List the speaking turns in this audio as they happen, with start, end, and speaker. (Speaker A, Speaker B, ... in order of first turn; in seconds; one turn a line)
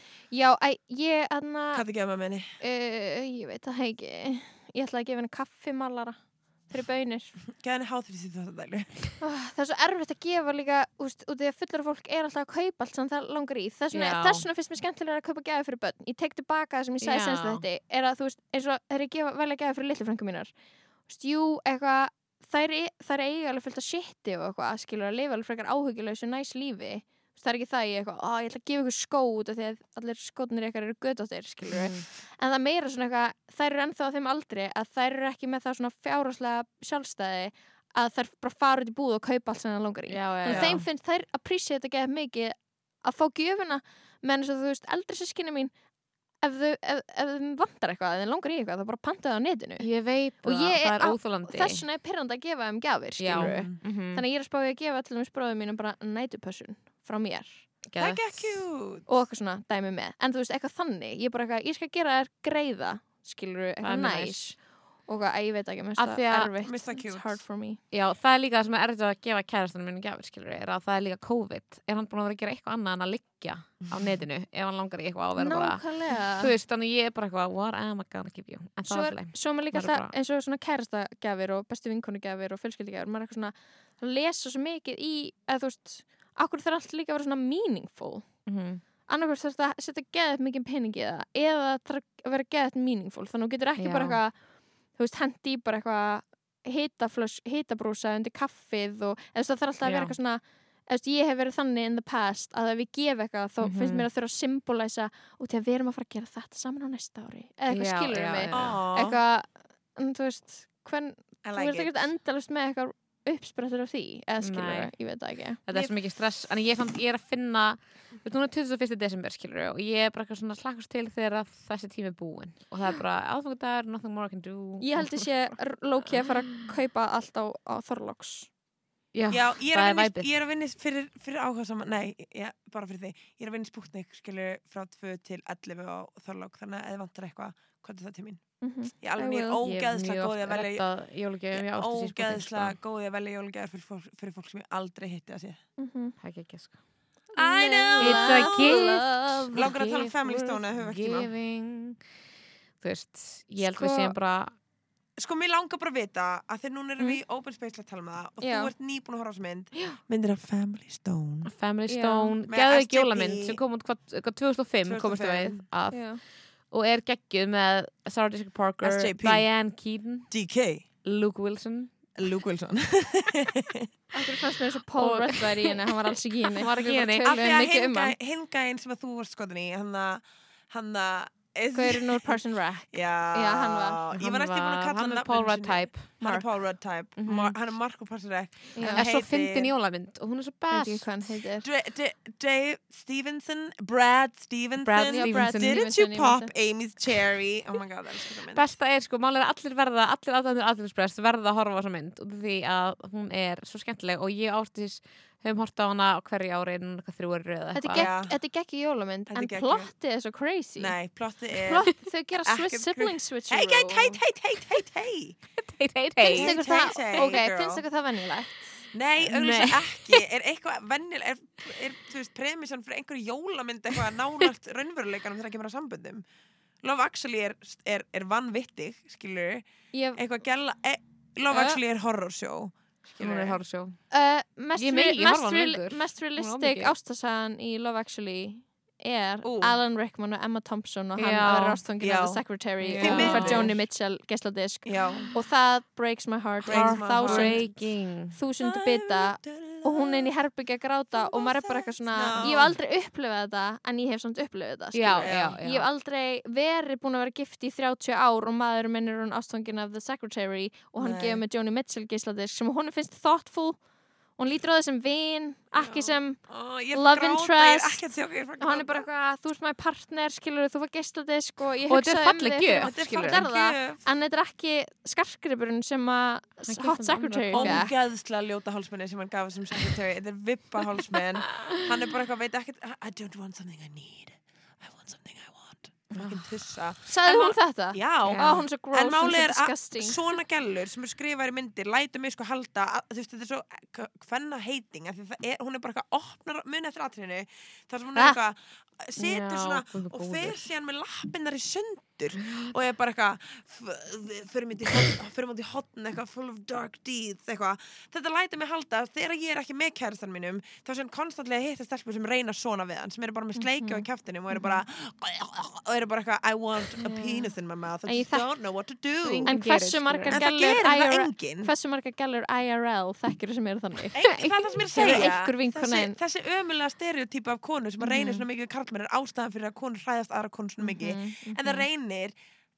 Speaker A: 0.3-1.9
Speaker B: 1.7-2.5
Speaker A: 2.6-7.3
Speaker B: 7.5-9.0
Speaker A: 9.2-20.5
Speaker C: 13.9-14.4
Speaker C: 17.0-17.6
Speaker A: 21.1-45.7
Speaker C: 31.7-32.0
Speaker C: 40.1-40.8
Speaker B: 40.5-40.9
Speaker A: 46.4-49.9
Speaker C: 49.8-51.8
Speaker A: 50.4-57.7
Speaker C: 53.2-54.2
Speaker B: 53.3-53.8
Speaker C: 57.9-58.6
Speaker B: 58.0-59.1
Speaker A: 59.1-67.8
Speaker C: 63.8-64.5
Speaker C: 66.0-66.5
Speaker B: 66.6-67.4
Speaker C: 67.9-75.8
Speaker A: 75.4-76.5
Speaker C: 76.4-80.1
Speaker A: 78.9-88.3
Speaker C: 88.5-88.8
Speaker A: 89.1-94.3
Speaker C: 93.8-94.2
Speaker A: 95.0-115.6
Speaker C: 99.8-100.1
Speaker C: 103.6-104.1
Speaker C: 107.7-108.8
Speaker B: 108.5-109.2
Speaker B: 111.4-112.1
Speaker C: 114.4-114.9
Speaker C: 115.7-125.3
Speaker A: 124.8-128.5
Speaker C: 129.1-130.3
Speaker B: 129.3-138.4
Speaker A: 138.6-139.6
Speaker B: 139.0-140.8
Speaker C: 139.6-142.8
Speaker B: 141.5-145.6
Speaker A: 145.8-146.2
Speaker C: 146.2-146.8
Speaker A: 147.3-149.6
Speaker B: 147.4-148.8
Speaker C: 148.0-152.0
Speaker B: 149.5-151.3
Speaker C: 152.8-154.5
Speaker A: 153.6-154.2
Speaker B: 155.2-161.5
Speaker A: 158.4-158.7
Speaker A: 159.7-160.0
Speaker C: 161.5-170.3
Speaker A: 161.9-162.3
Speaker B: 162.5-163.6
Speaker B: 164.8-165.7
Speaker A: 165.9-166.2
Speaker B: 168.8-169.5
Speaker B: 170.3-170.8
Speaker C: 171.0-171.9
Speaker B: 172.2-173.9
Speaker A: 174.1-178.2
Speaker C: 175.0-175.9
Speaker C: 176.6-177.3
Speaker B: 177.2-182.4
Speaker A: 181.7-184.0
Speaker B: 182.9-189.7
Speaker C: 184.2-186.4
Speaker C: 187.2-187.6
Speaker A: 188.8-189.0
Speaker C: 188.8-191.1
Speaker A: 190.7-191.7
Speaker B: 191.6-198.7
Speaker C: 194.8-195.8
Speaker A: 195.1-196.5
Speaker C: 198.5-208.1
Speaker A: 207.8-210.9
Speaker B: 207.9-208.4
Speaker B: 209.3-209.9
Speaker B: 210.8-211.9
Speaker A: 211.7-214.2
Speaker B: 212.4-215.4
Speaker C: 215.6-216.6
Speaker A: 216.2-218.8
Speaker B: 216.3-217.8
Speaker B: 218.9-226.2
Speaker C: 219.3-220.2
Speaker B: 226.8-233.6
Speaker A: 229.9-230.2
Speaker C: 231.5-231.8
Speaker C: 233.2-234.0
Speaker A: 234.1-263.8
Speaker C: 234.8-236.9
Speaker B: 239.4-239.8
Speaker C: 241.2-241.8
Speaker B: 242.0-242.4
Speaker C: 242.8-243.7
Speaker B: 242.9-243.7
Speaker B: 244.8-245.3
Speaker C: 246.7-248.3
Speaker B: 246.7-247.6
Speaker B: 248.6-250.3
Speaker B: 251.1-252.8
Speaker C: 254.9-255.9
Speaker B: 255.2-255.6
Speaker B: 261.0-261.4
Speaker A: 264.4-266.4
Speaker B: 265.8-269.1
Speaker A: 266.9-277.9
Speaker C: 271.9-273.5
Speaker B: 272.8-274.0
Speaker C: 276.7-277.9
Speaker B: 277.5-319.5
Speaker C: 281.6-281.9
Speaker C: 286.1-286.5
Speaker A: 287.1-290.2
Speaker C: 288.3-288.6
Speaker C: 299.2-300.6
Speaker C: 302.4-302.7
Speaker A: 313.6-314.8
Speaker A: 317.0-317.5
Speaker A: 318.1-318.5
Speaker C: 319.2-320.4
Speaker A: 319.5-324.2
Speaker B: 320.3-321.7
Speaker B: 324.1-332.3
Speaker C: 324.3-325.2
Speaker A: 324.9-326.2
Speaker A: 328.0-328.4
Speaker A: 330.8-331.9